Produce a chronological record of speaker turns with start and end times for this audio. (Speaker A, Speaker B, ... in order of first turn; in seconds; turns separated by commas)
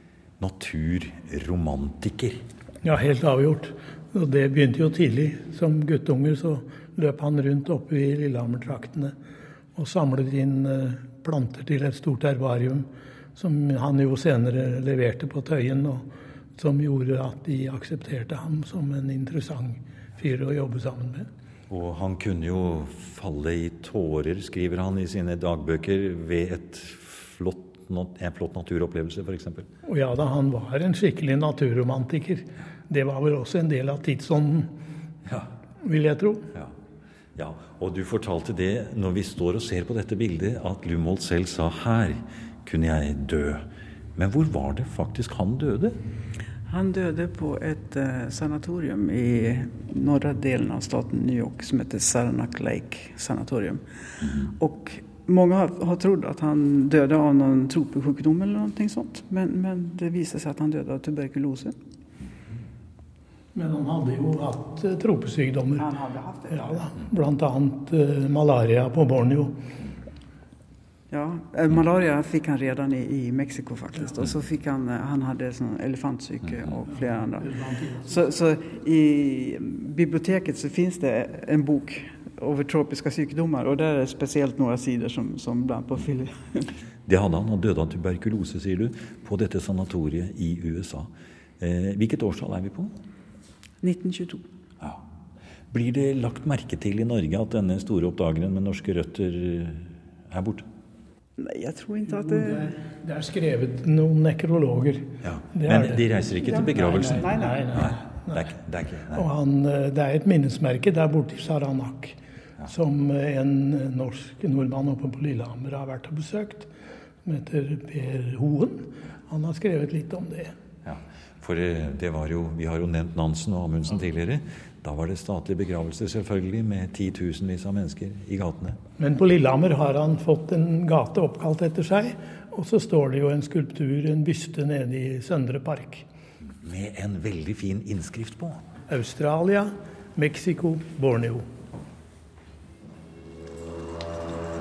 Speaker A: 0.4-2.4, Speaker B: 2.8-9.1, Speaker B: 9.7-21.3, Speaker A: 21.7-29.7, Speaker B: 29.8-34.8, Speaker A: 35.2-35.5, Speaker B: 35.8-36.5, Speaker A: 37.4-43.6, Speaker A: 44.1-46.0, Speaker C: 46.7-53.8, Speaker A: 54.2-54.5, Speaker C: 54.4-61.7, Speaker B: 63.5-65.9, Speaker C: 65.8-66.9, Speaker B: 66.5-69.6, Speaker C: 71.1-77.5, Speaker B: 77.4-78.2, Speaker C: 78.1-86.7, Speaker A: 87.1-92.9, Speaker C: 93.8-94.4, Speaker A: 95.7-100.7, Speaker C: 101.4-102.8, Speaker B: 102.2-106.1, Speaker A: 105.2-109.3, Speaker C: 106.3-108.0, Speaker B: 107.2-108.5, Speaker B: 109.1-116.7, Speaker B: 117.2-120.5, Speaker A: 120.8-128.8, Speaker B: 129.0-136.1, Speaker A: 136.6-138.6, Speaker B: 138.9-141.4